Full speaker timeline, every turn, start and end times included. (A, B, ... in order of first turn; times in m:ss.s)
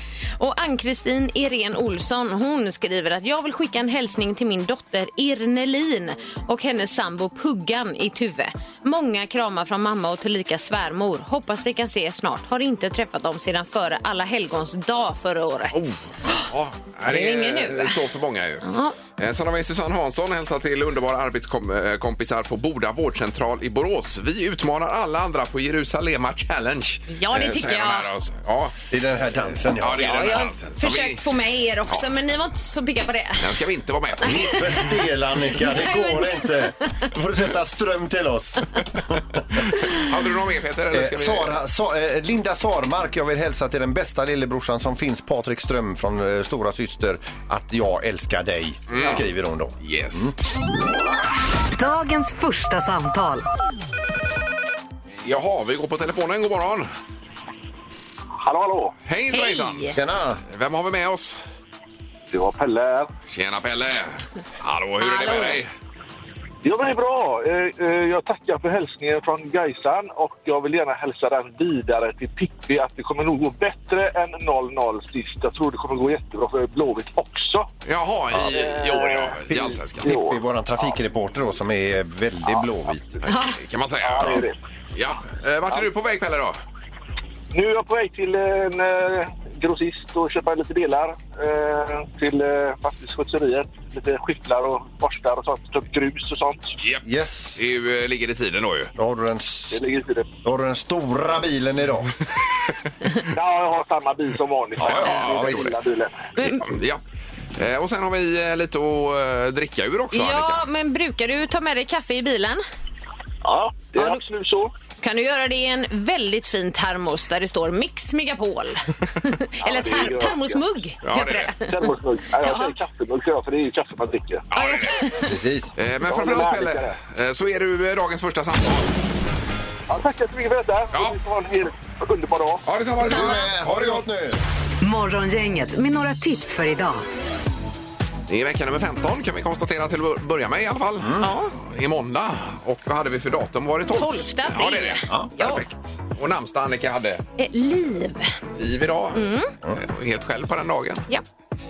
0:00.4-0:16.4 A
0:15.7-0:28.8 B
0:17.0-0:18.0 A
0:18.6-0:19.0 A
0:27.1-0:28.1 A
0:28.9-0:30.4 C
0:29.7-0:31.2 B
0:30.0-0:33.5 A
0:33.4-0:34.6 B
0:34.2-0:39.6 C
0:34.2-0:34.9 A
0:35.5-0:37.0 A
0:39.8-0:41.6 B
0:40.9-0:50.3 C
0:48.9-0:49.2 B
0:49.8-0:50.3 B
0:51.7-0:53.4 D
0:55.2-0:56.9 B
0:58.4-0:58.9 E
0:59.0-1:01.4 B
0:59.3-1:00.0 A
0:59.9-1:00.4 C
1:02.3-1:03.1 E
1:03.3-1:05.7 B
1:05.0-1:05.6 A
1:06.6-1:17.7 E
1:17.8-1:20.1 B
1:18.5-1:19.4 E
1:19.5-1:23.2 C
1:20.0-1:20.4 E
1:23.2-1:23.6 A
1:23.2-1:24.4 B
1:24.0-1:24.6 E
1:24.9-1:26.6 B
1:27.5-1:36.7 E
1:37.0-1:37.6 C
1:37.6-1:38.9 B
1:39.0-1:39.8 C
1:39.7-1:40.3 E
1:40.4-1:42.1 C
1:43.3-1:46.3 E
1:44.8-1:45.7 C
1:44.8-1:45.7 B
1:46.4-1:46.6 A
1:46.4-1:47.0 B
1:47.6-1:50.6 B
1:50.1-1:52.6 A
1:53.4-1:54.7 E
1:53.9-1:54.2 A
1:55.0-2:01.7 A
1:59.6-2:00.6 E
2:01.0-2:01.5 B
2:01.6-2:04.5 E
2:02.4-2:02.7 A
2:04.5-2:04.9 B
2:04.5-2:05.4 A
2:05.3-2:05.7 C
2:05.8-2:08.9 B
2:06.0-2:07.0 E
2:09.9-2:12.6 E
2:12.6-2:14.1 B
2:13.0-2:14.4 C
2:13.0-2:13.4 A
2:14.8-2:17.0 D
2:18.3-2:27.2 B
2:21.0-2:21.3 C
2:21.2-2:21.5 A
2:23.9-2:25.6 A
2:27.4-2:28.3 A
2:28.6-2:31.0 B
2:29.1-2:29.5 A